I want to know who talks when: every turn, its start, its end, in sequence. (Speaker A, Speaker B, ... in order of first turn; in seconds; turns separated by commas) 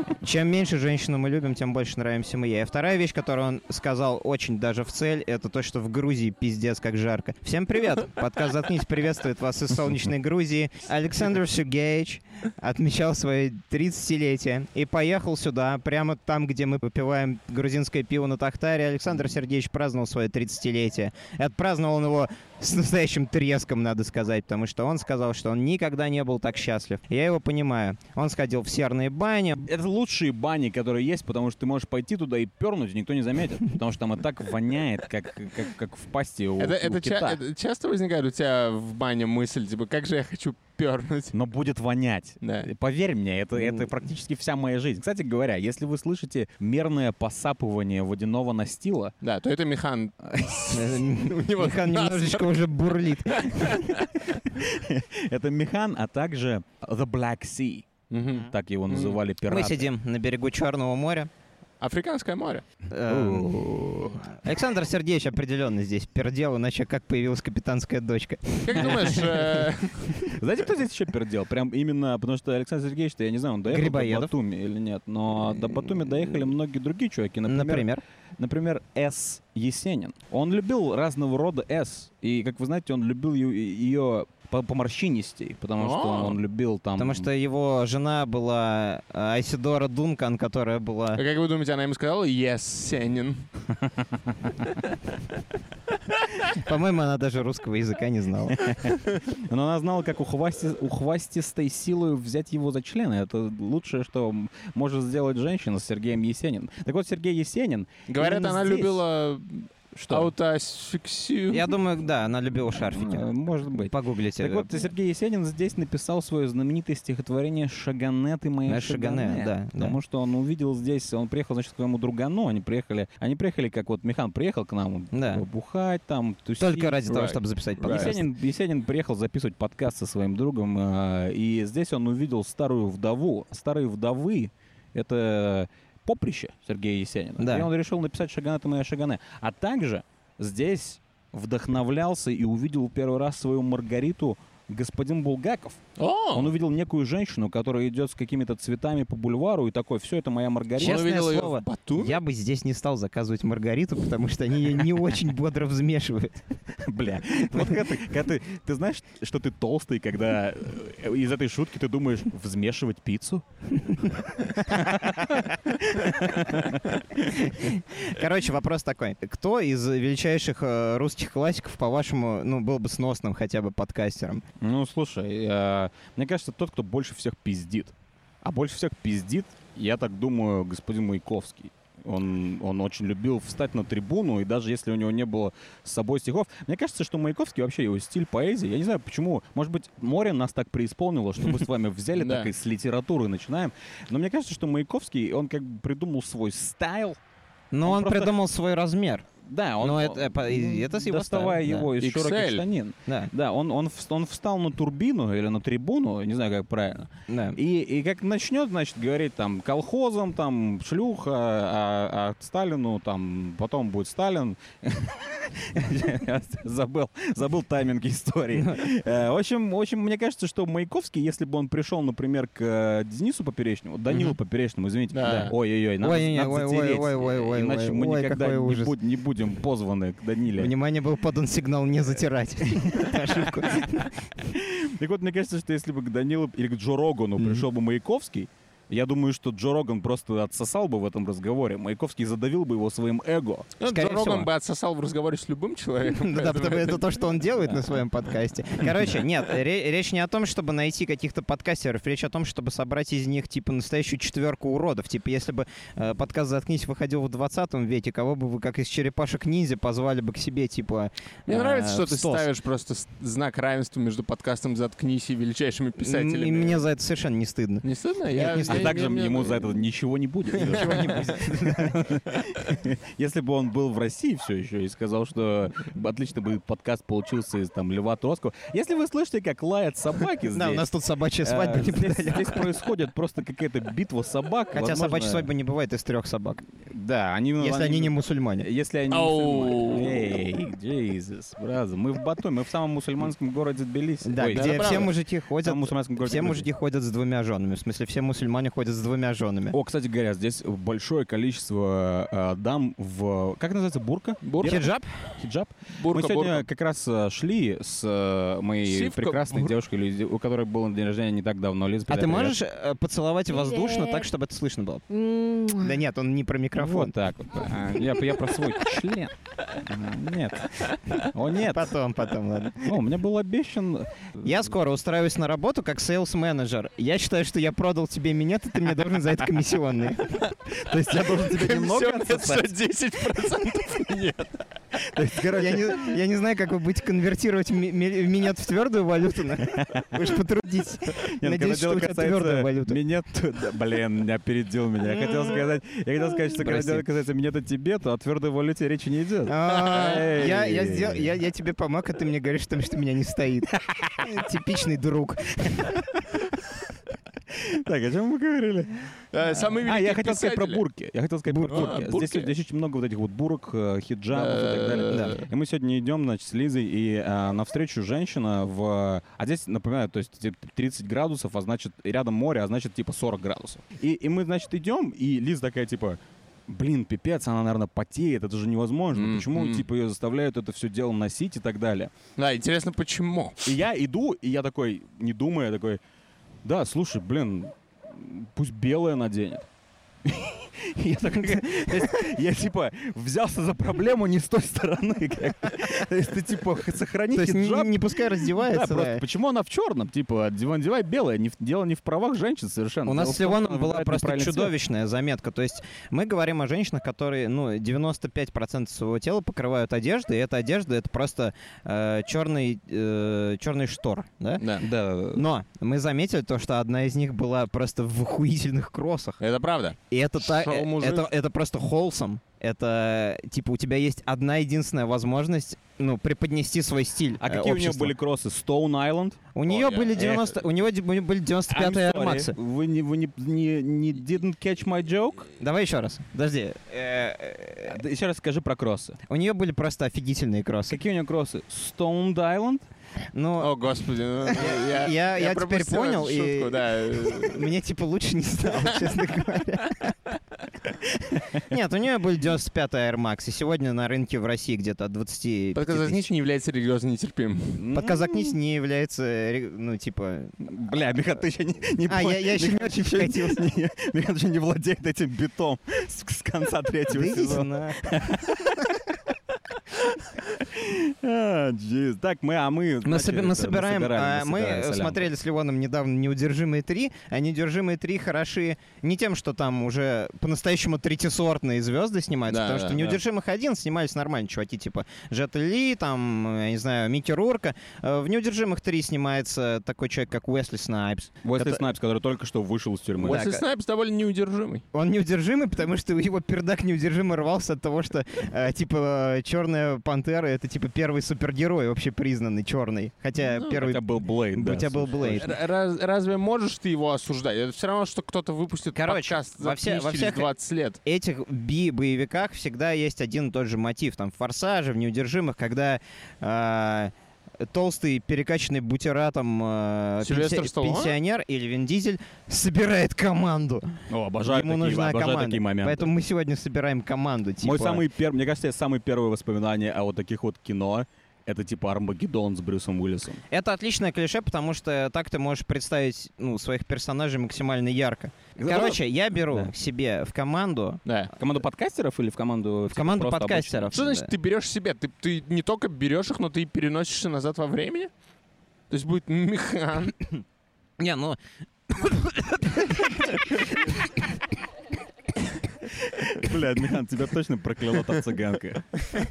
Speaker A: 0.2-29.6, Speaker B: 29.6-37.4, Speaker C: 36.6-41.4, Speaker B: 41.3-49.1, Speaker C: 42.4-42.7, Speaker C: 49.2-52.7, Speaker B: 50.2-50.8, Speaker A: 50.7-53.9, Speaker C: 53.2-54.1, Speaker B: 54.5-59.9, Speaker C: 58.1-59.2, Speaker A: 59.5-61.3, Speaker C: 61.8-62.6, Speaker A: 62.9-63.7, Speaker B: 63.1-64.4, Speaker A: 64.3-69.4, Speaker C: 68.6-70.3, Speaker B: 68.8-69.2, Speaker B: 70.2-87.3, Speaker A: 73.7-74.3, Speaker A: 77.5-78.0, Speaker C: 85.8-86.4, Speaker A: 87.0-91.2, Speaker C: 91.2-93.5, Speaker C: 94.7-95.0, Speaker A: 96.5-99.0, Speaker B: 98.5-108.3, Speaker C: 108.1-111.8, Speaker A: 108.2-109.0, Speaker B: 110.0-110.3, Speaker A: 111.5-114.7, Speaker B: 112.7-127.1, Speaker A: 118.7-120.0, Speaker A: 125.1-125.4, Speaker A: 126.6-128.2, Speaker C: 127.1-128.2, Speaker B: 127.8-145.8, Speaker A: 137.4-137.7, Speaker C: 146.0-146.5, Speaker B: 146.3-151.1, Speaker A: 150.8-156.4, Speaker C: 150.8-152.2, Speaker B: 156.8-167.3, Speaker A: 164.6-165.5, Speaker A: 167.1-174.4, Speaker B: 174.6-197.2, Speaker C: 192.2-192.5, Speaker A: 197.7-199.3, Speaker B: 197.8-198.3, Speaker B: 199.4-230.7, Speaker A: 199.8-201.9, Speaker C: 202.0-202.6, Speaker A: 207.3-207.6, Speaker A: 218.6-218.8, Speaker C: 225.1-225.5, Speaker A: 225.2-228.9, Speaker A: 230.6-234.3, Speaker B: 232.8-233.8, Speaker B: 234.4-243.8, Speaker C: 243.8-247.1, Speaker A: 243.8-244.5, Speaker A: 246.1-262.5, Speaker C: 261.5-266.9, Speaker A: 266.0-269.0, Speaker C: 267.8-269.9, Speaker B: 268.7-280.9, Speaker A: 270.6-272.1, Speaker C: 270.6-271.4, Speaker A: 280.5-282.7, Speaker B: 281.4-285.5, Speaker A: 284.7-286.6, Speaker B: 286.9-296.7, Speaker A: 287.6-288.7, Speaker C: 289.1-290.3, Speaker A: 294.2-299.8, Speaker C: 294.5-295.1, Speaker B: 299.7-312.6, Speaker C: 304.4-304.9, Speaker A: 304.6-305.3, Speaker C: 305.9-306.6, Speaker C: 308.9-309.7, Speaker A: 312.1-317.1, Speaker B: 316.8-321.9, Speaker A: 321.6-323.0, Speaker B: 322.8-324.6, Speaker A: 324.4-330.5, Speaker B: 330.7-332.7, Speaker C: 331.1-334.6, Speaker B: 335.0-336.2, Speaker A: 335.5-343.0, Speaker B: 339.6-340.2, Speaker B: 341.1-351.3, Speaker A: 346.6-347.0, Speaker A: 349.5-356.1, Speaker B: 353.7-354.4, Speaker B: 357.5-359.0, Speaker C: 359.3-360.8, Speaker B: 359.8-382.1, Speaker A: 361.5-362.0, Speaker C: 361.7-362.5, Speaker C: 364.3-365.5, Speaker A: 365.1-365.4, Speaker C: 379.1-379.9, Speaker C: 382.4-383.7, Speaker B: 383.6-386.0, Speaker B: 386.6-389.7, Speaker B: 390.2-404.7, Speaker A: 397.3-399.2, Speaker A: 403.1-414.6, Speaker C: 414.6-414.9, Speaker B: 414.8-415.4, Speaker A: 415.3-419.4, Speaker C: 419.4-421.3, Speaker A: 420.1-428.1, Speaker B: 427.4-429.4, Speaker A: 429.5-432.6, Speaker C: 429.7-430.6, Speaker B: 431.7-435.5, Speaker A: 435.6-438.0, Speaker B: 437.9-439.2, Speaker A: 439.3-441.0, Speaker B: 440.9-442.9, Speaker A: 443.3-443.7, Speaker C: 443.6-447.7, Speaker A: 444.4-450.2, Speaker A: 451.4-456.3, Speaker C: 455.8-457.8, Speaker B: 457.8-458.6, Speaker A: 457.9-460.5, Speaker B: 460.6-469.1, Speaker A: 462.1-463.6, Speaker A: 467.1-468.0, Speaker B: 469.9-475.3, Speaker A: 473.0-491.8, Speaker C: 482.5-483.1, Speaker B: 491.4-493.4, Speaker C: 493.2-494.9, Speaker A: 493.3-493.6, Speaker A: 494.9-505.5, Speaker B: 503.7-505.6, Speaker C: 505.2-511.0, Speaker A: 508.9-510.5, Speaker A: 511.0-517.1, Speaker A: 517.6-528.0, Speaker C: 520.2-521.2, Speaker B: 524.1-526.1, Speaker B: 527.6-533.4, Speaker A: 533.5-541.0, Speaker B: 538.6-539.7, Speaker C: 541.1-541.3, Speaker B: 541.4-544.0, Speaker A: 542.9-544.3, Speaker C: 543.9-548.1, Speaker C: 548.9-550.2, Speaker A: 551.0-551.4, Speaker A: 551.9-554.3, Speaker B: 556.0-558.9